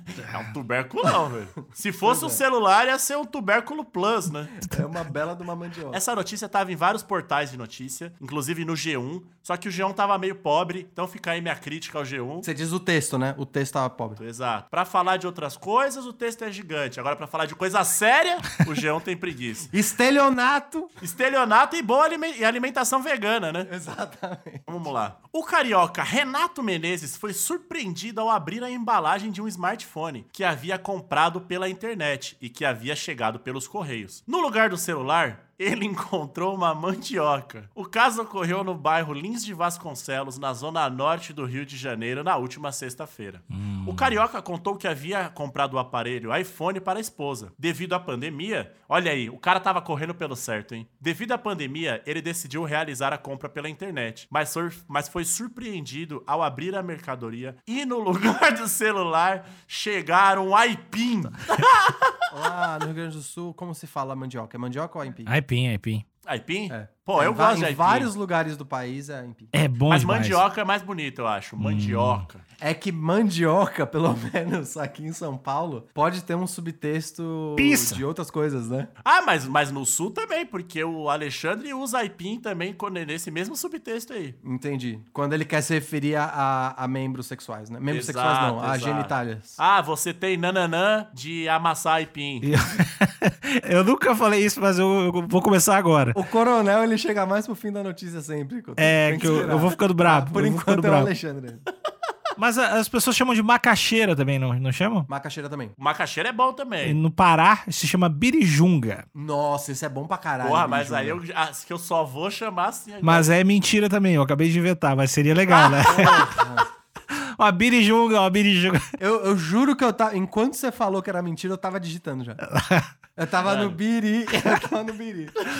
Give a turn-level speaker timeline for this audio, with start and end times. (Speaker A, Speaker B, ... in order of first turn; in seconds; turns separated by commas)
Speaker A: 0.1-4.6, Speaker B: 2.0-2.4, Speaker B: 4.6-6.0, Speaker A: 5.9-12.5, Speaker B: 12.4-14.2, Speaker A: 14.2-19.7, Speaker B: 19.7-20.9, Speaker A: 21.0-23.7, Speaker B: 23.6-24.7, Speaker A: 24.7-62.1, Speaker C: 43.5-44.1, Speaker B: 62.3-65.3, Speaker C: 65.2-66.0, Speaker A: 66.2-68.1, Speaker B: 66.7-69.5, Speaker C: 69.5-70.4, Speaker A: 69.9-72.4, Speaker C: 71.6-72.2, Speaker B: 72.6-78.9, Speaker C: 77.6-78.0, Speaker A: 79.0-84.4, Speaker B: 84.4-89.6, Speaker A: 87.9-92.5, Speaker C: 92.4-96.2, Speaker B: 96.1-101.6, Speaker C: 98.8-101.1, Speaker C: 102.4-105.1, Speaker B: 105.1-105.7, Speaker A: 105.8-107.0, Speaker C: 106.8-109.0, Speaker B: 109.1-111.2, Speaker A: 110.4-113.3, Speaker C: 113.0-116.3, Speaker A: 115.5-116.2, Speaker B: 115.7-116.7, Speaker C: 117.1-118.9, Speaker B: 119.0-122.4, Speaker C: 122.4-122.9, Speaker B: 123.2-125.4, Speaker A: 123.4-123.8